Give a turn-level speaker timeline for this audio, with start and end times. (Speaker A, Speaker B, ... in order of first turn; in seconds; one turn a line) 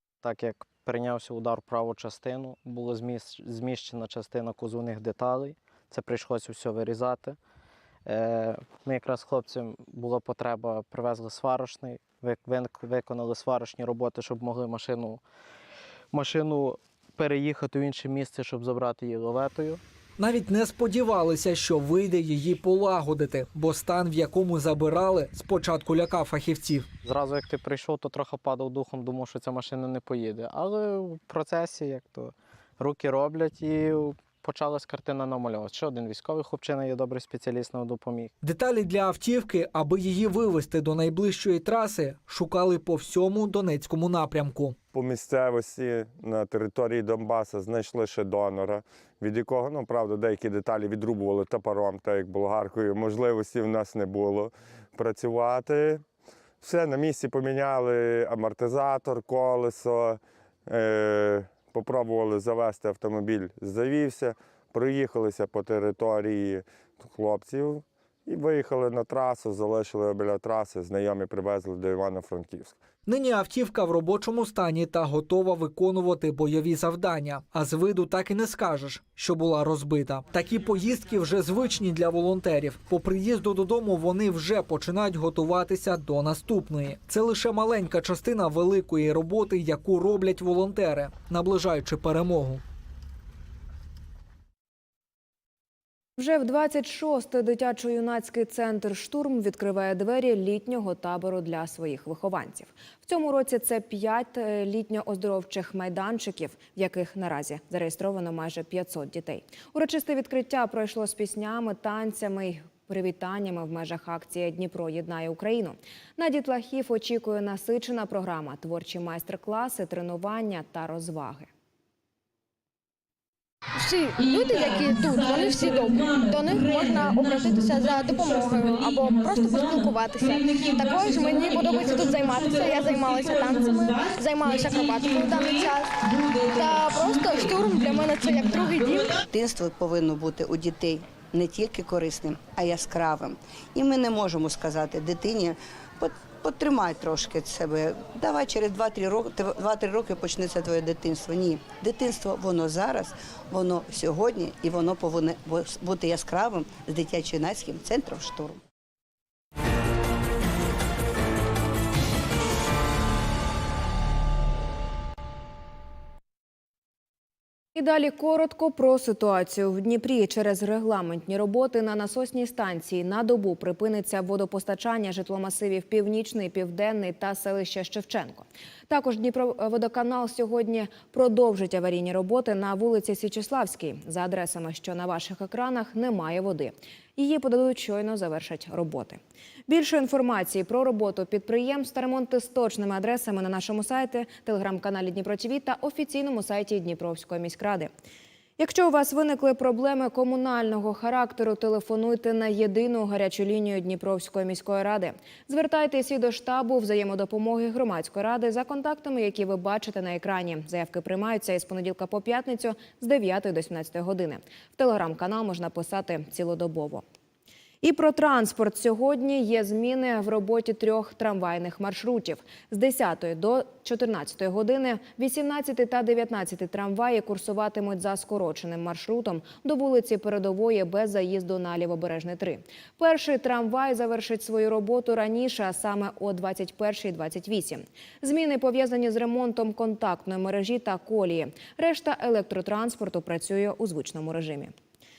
Speaker A: 0.2-7.4
Speaker A: 8.1-15.2
Speaker A: 16.1-19.8
Speaker B: 20.2-26.9
Speaker A: 27.0-38.3
Speaker B: 38.4-44.8
Speaker C: 44.9-56.0
Speaker C: 56.6-72.8
Speaker B: 73.1-92.6
Speaker D: 96.2-121.5
Speaker E: 123.8-139.2
Speaker F: 139.3-158.6
Speaker D: 167.8-197.9
Speaker D: 198.6-217.0
Speaker D: 217.8-244.7